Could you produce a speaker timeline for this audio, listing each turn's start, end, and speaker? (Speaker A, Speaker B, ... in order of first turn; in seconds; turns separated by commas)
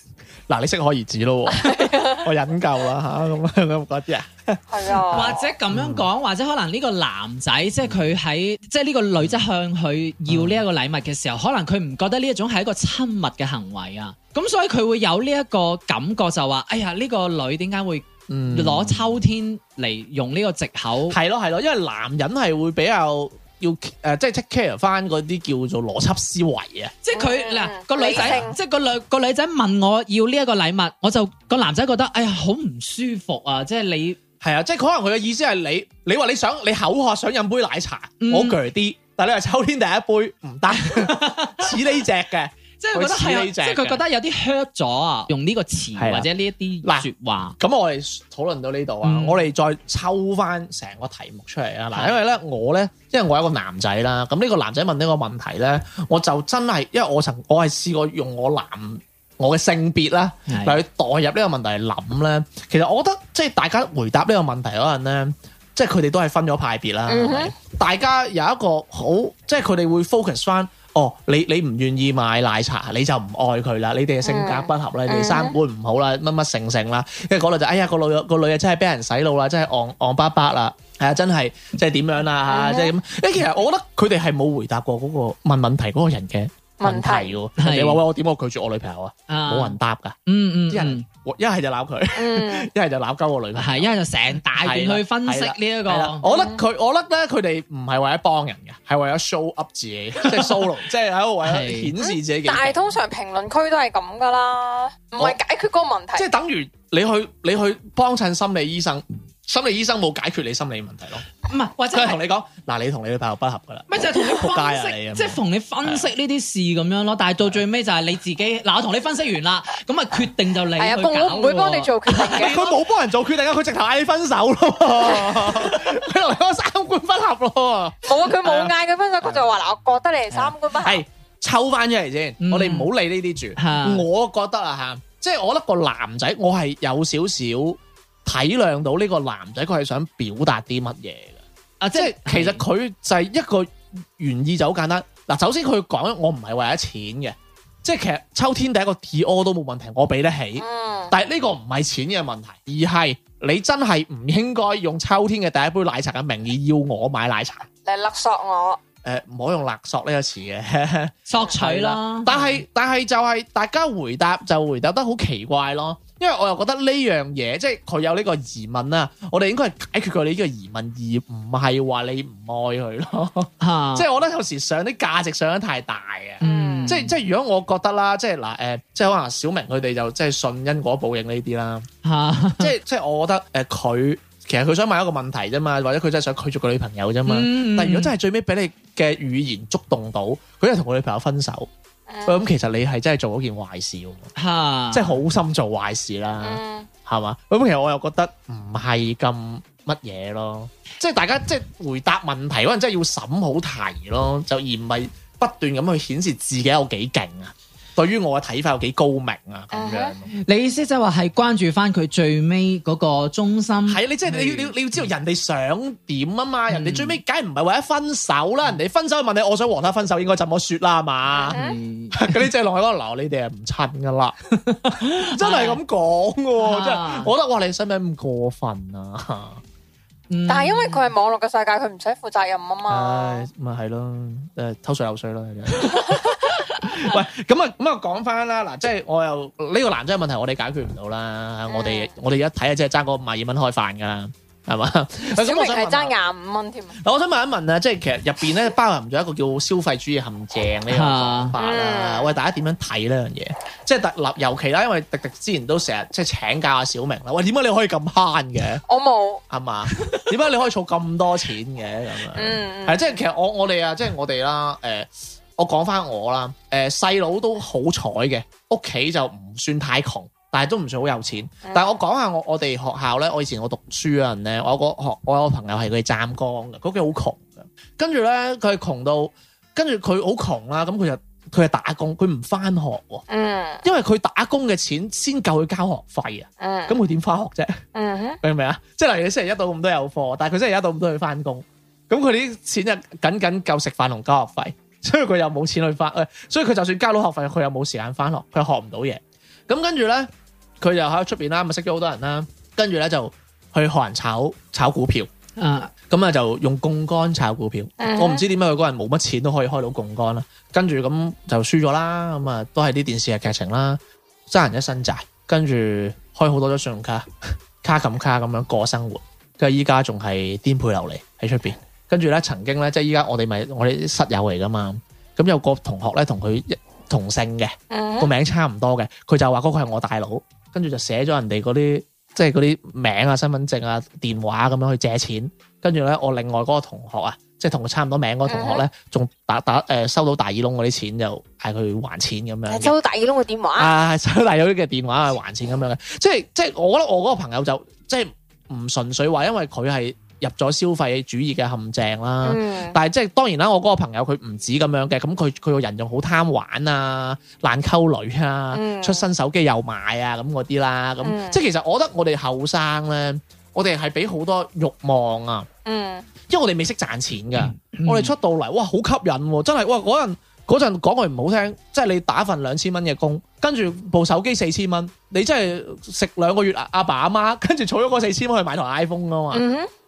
Speaker A: 0.5-6.1, Speaker B: 1.5-2.3, Speaker B: 4.7-5.4, Speaker C: 5.1-21.2, Speaker A: 10.3-10.6, Speaker A: 18.3-19.2, Speaker A: 21.1-26.9, Speaker C: 27.0-34.2, Speaker B: 27.1-28.6, Speaker A: 28.1-28.5, Speaker A: 34.4-44.0, Speaker C: 38.2-38.6, Speaker C: 40.8-41.7, Speaker C: 42.8-47.5, Speaker A: 46.0-46.3, Speaker A: 46.8-90.2, Speaker C: 49.0-49.4, Speaker C: 51.9-52.2, Speaker C: 60.5-60.8, Speaker B: 67.1-67.5, Speaker B: 74.2-75.5, Speaker B: 82.5-82.9, Speaker B: 86.8-87.4, Speaker C: 87.6-88.0, Speaker C: 89.3-91.0, Speaker A: 90.7-94.0, Speaker B: 92.1-92.7, Speaker C: 93.5-96.2, Speaker A: 94.5-103.0, Speaker B: 96.2-96.6, Speaker C: 101.4-101.9, Speaker B: 102.0-106.3, Speaker A: 106.2-111.2, Speaker C: 111.5-112.2, Speaker A: 111.9-116.1, Speaker C: 113.9-122.5, Speaker B: 120.8-122.7, Speaker A: 122.3-129.4, Speaker B: 128.0-131.0, Speaker A: 130.3-157.7, Speaker C: 132.4-132.9, Speaker C: 133.6-134.0, Speaker C: 141.8-142.6, Speaker B: 150.6-151.1, Speaker B: 157.8-158.8, Speaker A: 159.0-181.9, Speaker C: 161.3-162.6, Speaker C: 173.6-174.1, Speaker C: 176.4-177.1, Speaker B: 176.4-177.0, Speaker C: 182.0-182.7, Speaker A: 182.6-191.7, Speaker C: 187.2-188.1, Speaker B: 192.1-192.4, Speaker A: 192.2-194.3, Speaker C: 194.3-195.1, Speaker A: 194.9-210.3, Speaker B: 196.4-196.9, Speaker B: 209.7-210.1, Speaker C: 210.3-215.0, Speaker A: 213.9-221.6, Speaker C: 216.7-217.2, Speaker B: 221.3-221.8, Speaker C: 221.5-222.4, Speaker A: 222.1-224.4, Speaker C: 224.7-225.8, Speaker A: 224.9-229.6, Speaker C: 226.6-227.3, Speaker C: 230.3-231.1, Speaker B: 230.5-233.5, Speaker A: 232.9-246.1, Speaker C: 236.8-237.1, Speaker B: 241.7-242.1, Speaker B: 245.3-247.0, Speaker A: 247.0-258.8, Speaker C: 250.9-251.5, Speaker B: 251.6-252.3, Speaker B: 258.9-259.4, Speaker A: 259.5-283.2, Speaker B: 262.3-263.2, Speaker B: 271.6-271.9, Speaker B: 283.3-283.8, Speaker A: 283.8-287.8, Speaker B: 286.6-287.0, Speaker B: 287.9-288.4, Speaker A: 288.4-305.3, Speaker C: 305.6-305.9, Speaker A: 306.1-317.3, Speaker B: 308.0-308.4, Speaker A: 317.8-342.9, Speaker B: 327.9-328.3, Speaker B: 338.5-338.8, Speaker B: 342.7-343.9, Speaker A: 343.8-365.7, Speaker B: 352.4-353.0, Speaker B: 358.7-359.2, Speaker B: 361.2-361.6, Speaker B: 365.9-366.3, Speaker A: 366.5-379.6, Speaker C: 367.8-368.3, Speaker B: 379.5-379.9